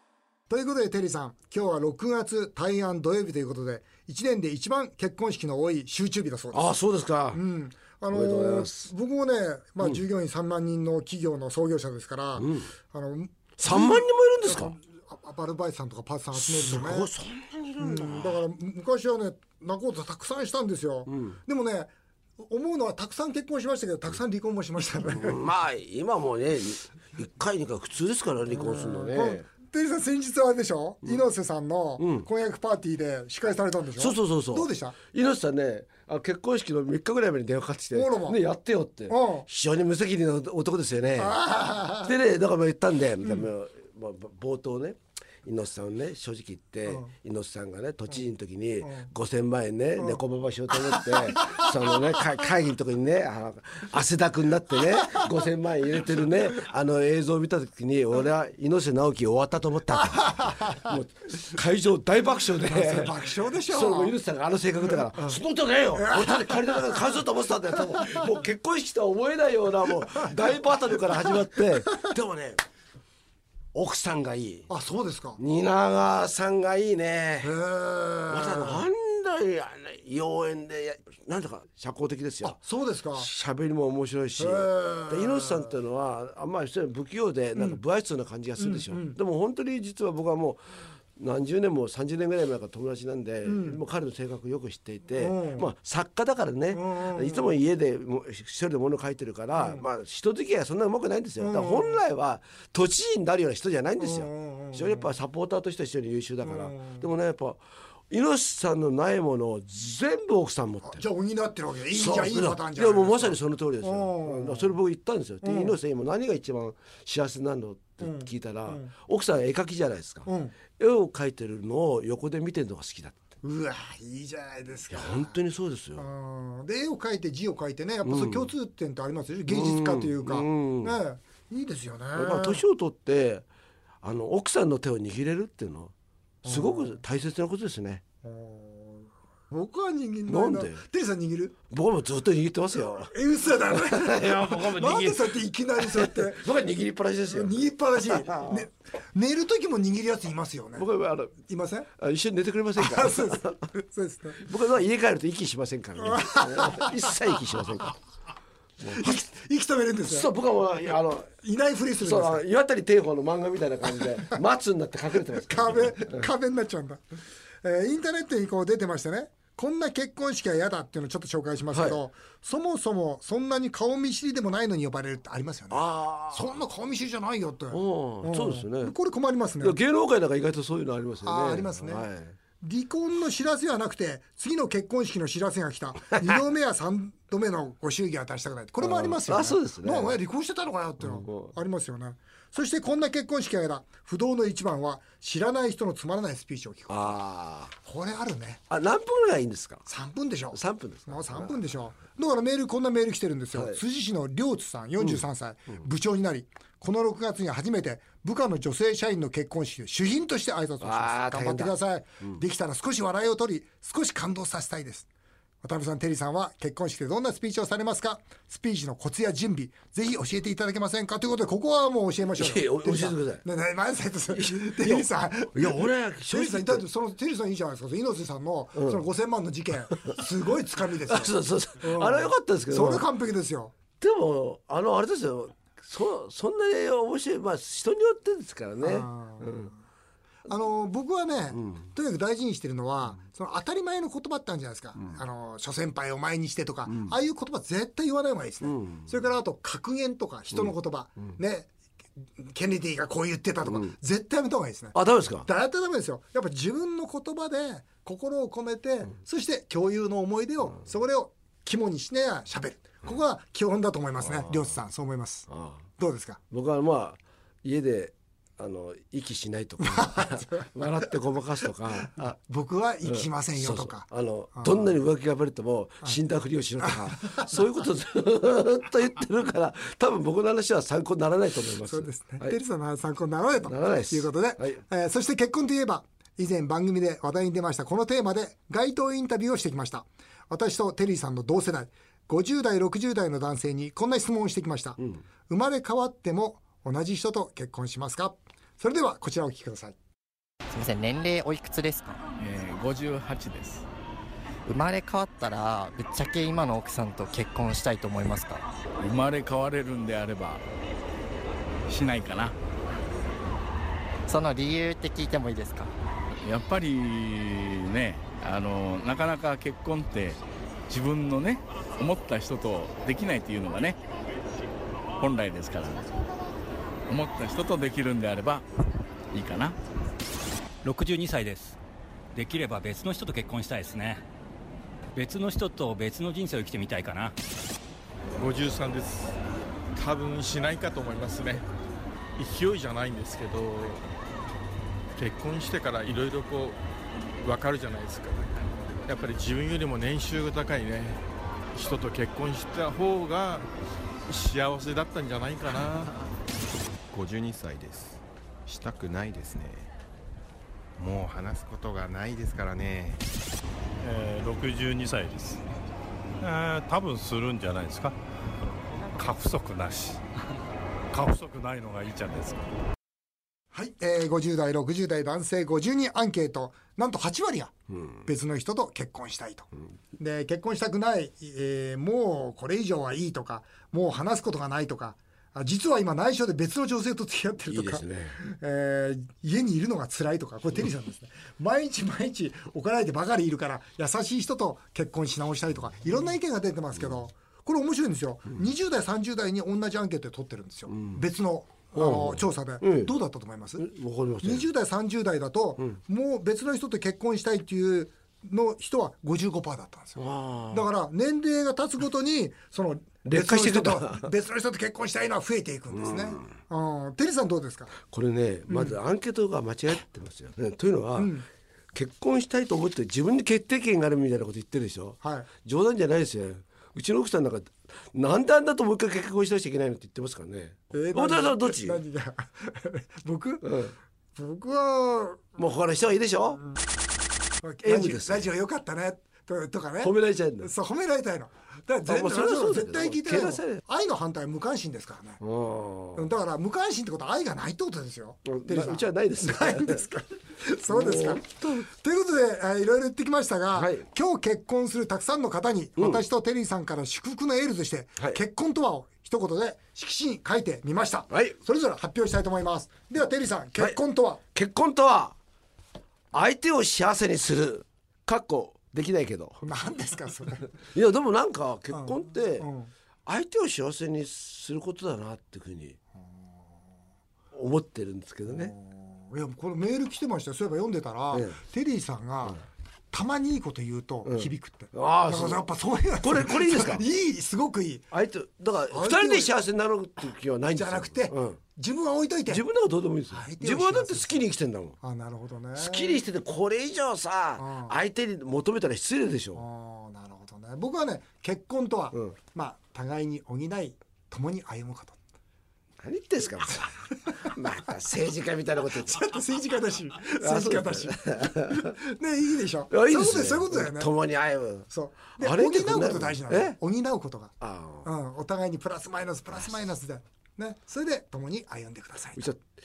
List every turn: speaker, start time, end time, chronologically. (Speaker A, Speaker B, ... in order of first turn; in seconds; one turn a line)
Speaker A: 0.5-6.8
Speaker B: 6.5-7.4
Speaker A: 7.3-17.1
Speaker B: 8.1-8.9
Speaker B: 12.4-12.7
Speaker B: 13.6-14.8
Speaker B: 16.3-18.4
Speaker A: 17.8-25.4
Speaker B: 21.1-21.4
Speaker B: 25.0-29.4
Speaker A: 28.5-35.0
Speaker B: 32.0-32.3
Speaker B: 34.0-41.4
Speaker A: 37.9-38.4
Speaker A: 39.1-39.5
Speaker A: 41.2-42.1
Speaker B: 42.0-72.6
Speaker A: 48.8-49.1
Speaker A: 50.8-51.6
Speaker A: 60.0-61.0
Speaker A: 62.7-64.2
Speaker A: 66.0-67.0
Speaker A: 67.9-68.2
Speaker B: 73.7-74.7
Speaker A: 74.7-75.4
Speaker B: 75.4-77.5
Speaker A: 77.4-78.8
Speaker B: 78.3-82.6
Speaker A: 82.4-83.3
Speaker B: 83.1-90.6
Speaker A: 84.4-85.7
Speaker A: 87.5-87.8
Speaker A: 88.6-89.2
Speaker B: 91.1-111.0
Speaker A: 93.5-93.8
Speaker A: 95.2-95.7
Speaker A: 96.7-97.5
Speaker A: 99.5-99.8
Speaker A: 101.4-102.0
Speaker A: 104.0-105.1
Speaker A: 106.4-107.0
Speaker A: 110.8-114.8
Speaker B: 111.9-123.2
Speaker A: 115.4-115.8
Speaker A: 118.0-118.9
Speaker A: 120.2-120.5
Speaker A: 123.4-125.3
Speaker B: 124.9-126.0
Speaker A: 126.0-132.6
Speaker B: 128.0-128.5
Speaker B: 129.5-131.0
Speaker B: 132.1-133.4
Speaker B: 134.0-135.9
Speaker A: 136.4-137.0
Speaker B: 136.4-138.0
Speaker A: 138.2-141.5
Speaker B: 140.3-140.8
Speaker B: 141.7-148.7
Speaker A: 143.0-146.4
Speaker A: 147.3-150.9
Speaker B: 150.8-151.4
Speaker A: 151.4-151.9
Speaker B: 152.0-153.6
Speaker A: 152.8-154.4
Speaker B: 154.4-157.9
Speaker A: 156.0-157.1
Speaker B: 158.8-159.1
Speaker A: 158.9-160.3
Speaker B: 160.1-161.3
Speaker A: 161.4-162.4
Speaker B: 162.0-166.2
Speaker A: 165.4-167.0
Speaker A: 167.6-179.8
Speaker B: 171.7-172.0
Speaker B: 175.7-176.6
Speaker B: 177.7-178.9
Speaker B: 179.6-182.3
Speaker A: 181.2-182.1
Speaker A: 182.6-197.2
Speaker B: 188.8-190.2
Speaker B: 191.0-191.5
Speaker B: 196.9-197.7
Speaker A: 197.8-198.6
Speaker B: 198.7-199.8
Speaker A: 199.8-215.1
Speaker B: 200.5-201.6
Speaker B: 203.5-203.8
Speaker B: 210.8-212.4
Speaker A: 215.6-233.7
Speaker B: 222.3-223.4
Speaker B: 224.3-226.8
Speaker B: 228.7-229.0
Speaker B: 231.0-233.1
Speaker B: 234.0-239.7
Speaker A: 238.8-239.8
Speaker A: 240.5-251.7
Speaker B: 241.5-241.8
Speaker B: 246.9-247.2
Speaker B: 248.6-249.1
Speaker A: 252.4-266.4
Speaker B: 253.7-253.9
Speaker B: 254.9-255.5
Speaker B: 264.2-264.7
Speaker B: 265.5-265.9
Speaker B: 266.5-272.3
Speaker A: 269.9-270.6
Speaker A: 272.1-274.9
Speaker B: 273.1-282.6
Speaker A: 276.9-277.4
Speaker A: 281.9-300.0
Speaker B: 283.6-284.8
Speaker C: 300.7-302.2
Speaker D: 302.4-303.9
Speaker C: 304.7-308.6
Speaker D: 309.0-310.6
Speaker D: 311.9-312.5
Speaker C: 314.3-315.9
Speaker D: 316.4-324.0
Speaker D: 325.2-326.1
Speaker D: 327.1-328.6
Speaker D: 329.3-329.8
Speaker E: 330.8-331.8
Speaker E: 332.3-334.2
Speaker E: 335.1-337.4
Speaker F: 338.4-339.4
Speaker F: 339.9-341.6
Speaker F: 342.4-344.0
Speaker F: 345.1-346.8
Speaker F: 347.4-348.5
Speaker F: 349.1-351.2
Speaker F: 351.7-353.7
Speaker F: 354.3-356.1
Speaker G: 357.1-359.9
Speaker G: 361.0-363.2
Speaker H: 364.0-365.6
Speaker H: 366.4-368.2
Speaker H: 369.1-370.2
Speaker H: 371.1-372.7
Speaker A: 373.7-377.7
Speaker A: 378.2-403.9
Speaker B: 387.7-388.4
Speaker B: 400.9-401.2
Speaker B: 401.9-403.1
Speaker B: 403.8-404.7
Speaker A: 404.4-417.9
Speaker B: 410.2-410.9
Speaker B: 413.2-414.3
Speaker B: 415.9-416.5
Speaker B: 418.0-421.4
Speaker A: 421.2-421.4
Speaker B: 421.9-432.0
Speaker A: 425.2-425.5
Speaker A: 430.9-433.7
Speaker B: 433.6-433.9
Speaker A: 434.3-435.6
Speaker B: 435.6-436.6
Speaker A: 437.6-445.4
Speaker B: 437.8-438.5
Speaker B: 440.0-440.7
Speaker B: 442.1-443.8
Speaker B: 445.4-446.3
Speaker A: 446.1-464.4
Speaker B: 448.4-450.1
Speaker B: 450.9-451.9
Speaker B: 453.7-454.0
Speaker B: 456.0-456.2
Speaker B: 461.3-461.6
Speaker B: 464.5-465.4
Speaker B: 466.3-469.6
Speaker A: 469.6-470.7
Speaker B: 470.9-472.7
Speaker A: 471.9-472.9
Speaker B: 473.2-476.0
Speaker B: 477.5-478.7
Speaker A: 478.4-482.6
Speaker B: 481.3-481.6
Speaker A: 483.1-488.1
Speaker B: 484.2-485.6
Speaker B: 486.2-487.0
Speaker B: 488.1-491.6
Speaker A: 488.9-489.5
Speaker A: 490.7-492.6
Speaker B: 492.5-495.0
Speaker A: 493.3-494.5
Speaker A: 495.0-496.2
Speaker B: 495.8-499.6
Speaker A: 497.6-498.0
Speaker A: 499.5-505.2
Speaker B: 506.0-509.2
Speaker A: 509.0-514.1
Speaker B: 510.4-511.9
Speaker B: 512.9-516.8
Speaker A: 514.9-522.5
Speaker B: 517.6-518.0
Speaker B: 522.4-522.6